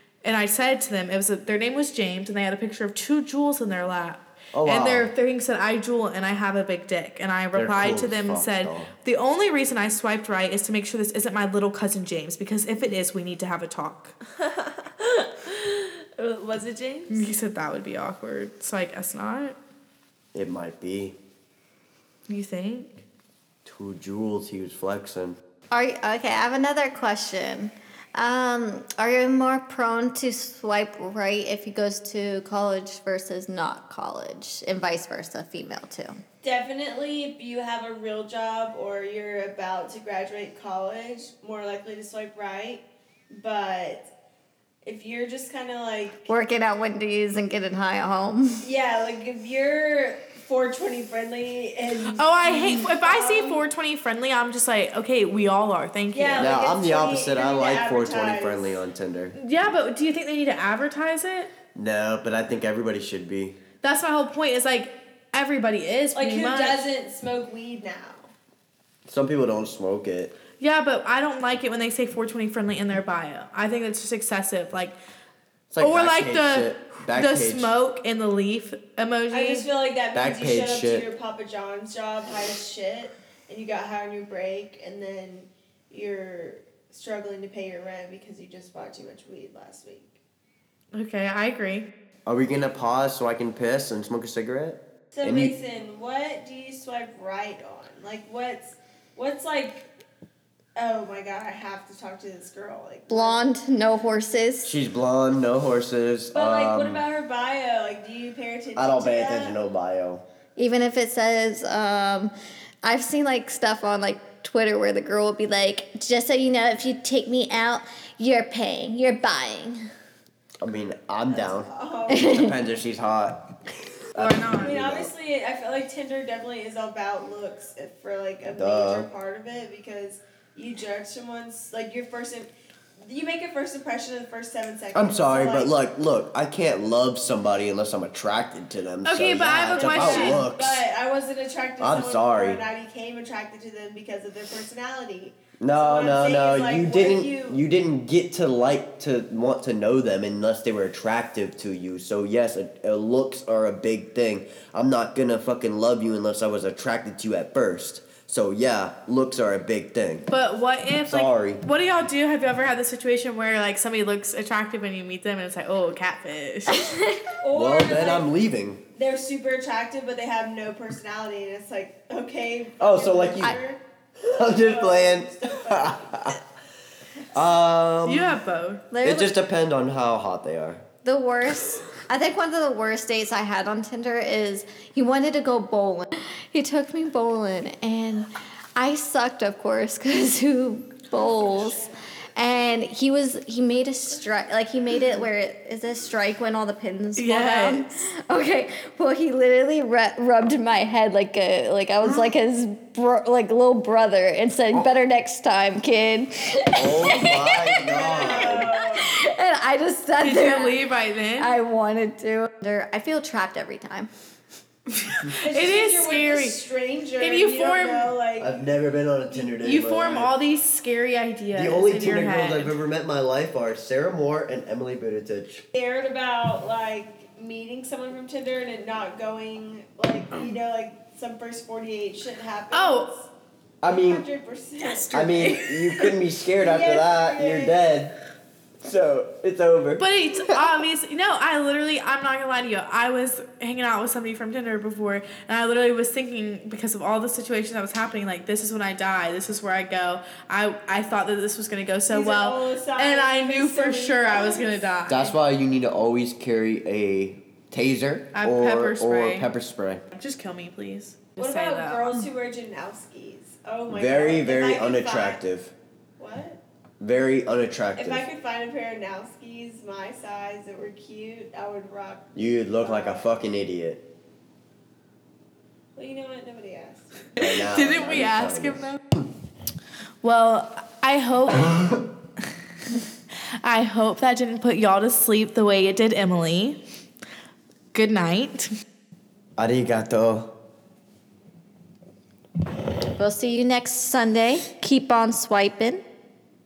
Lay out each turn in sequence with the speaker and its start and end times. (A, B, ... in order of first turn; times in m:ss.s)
0:00.2-0:14.1 A
0:04.5-0:05.1 B
0:07.5-0:08.9 B
0:14.4-0:17.3 C
0:17.1-0:19.6 A
0:20.3-0:21.2 B
0:22.3-0:22.9 A
0:23.6-0:25.4 B
0:25.7-0:36.2 D
0:36.4-0:44.1 C
0:44.8-0:46.3 C
0:46.3-0:48.6 D
0:48.6-0:53.6 C
0:52.1-0:56.5 A
0:56.1-0:58.8 C
0:56.4-0:59.4 B
0:59.4-1:01.5 A
1:01.7-1:03.6 B
1:03.8-1:06.9 A
1:06.1-1:08.3 C
1:09.1-1:10.3 B
1:10.6-1:15.0 A
1:15.7-1:17.7 B
1:15.8-1:19.6 A
1:19.3-1:30.1 C
1:20.1-1:21.0 B
1:30.9-1:31.8 A
1:32.2-1:35.5 B
1:35.1-1:39.9 C
1:40.8-1:43.4 C
1:43.1-1:44.7 D
1:44.6-1:47.0 B
1:46.3-1:49.6 C
1:48.8-1:50.2 B
1:50.6-1:59.9 D
2:00.6-2:03.5 B
2:01.4-2:02.3 C
2:02.1-2:02.6 D
2:04.1-2:05.1 B
2:04.2-2:04.8 A
2:04.6-2:15.8 C
2:08.6-2:09.1 B
2:14.9-2:20.8 B
2:19.0-2:20.5 A
2:19.7-2:27.6 C
2:21.8-2:22.6 B
2:25.6-2:40.3 B
2:40.3-2:46.9 A
2:41.1-2:41.6 B
2:46.7-2:47.2 D
2:47.4-2:48.3 C
2:47.5-2:48.8 B
2:48.9-2:53.8 C
2:52.8-2:53.6 B
2:54.2-2:56.4 B
2:54.4-2:56.4 C
2:57.3-2:58.4 B
2:58.0-2:58.8 A
2:58.9-2:59.3 D
2:59.0-3:00.8 B
3:01.0-3:30.8 D
3:11.1-3:12.0 C
3:17.2-3:18.0 A
3:26.7-3:28.7 B
3:27.8-3:29.1 C
3:30.2-3:31.5 A
3:31.4-3:34.1 D
3:35.0-3:36.6 A
3:35.4-3:38.6 C
3:37.2-3:38.1 A
3:38.4-3:40.3 B
3:39.3-3:42.7 A
3:41.5-3:45.6 B
3:45.7-3:53.3 C
3:52.7-3:53.1 A
3:53.8-3:54.2 B
3:53.9-3:55.2 C
3:54.8-3:56.1 A
3:55.1-3:58.1 B
3:56.6-3:57.7 C
3:58.8-4:00.6 B
4:00.0-4:15.3 A
4:12.1-4:14.9 C
4:15.1-4:20.0 B
4:18.3-4:19.5 A
4:20.1-4:22.1 A
4:21.4-4:25.4 C
4:23.9-4:25.7 B
4:26.2-4:26.6 C
4:27.0-4:28.2 B
4:28.0-4:33.2 C
4:32.3-4:34.0 B
4:36.0-4:37.1 C
4:37.4-4:39.0 A
4:37.4-4:38.8 B
4:40.2-4:42.0 A
4:43.6-4:46.8 A
4:47.9-4:48.7 A
4:49.6-4:50.5 B
4:53.1-4:56.0 D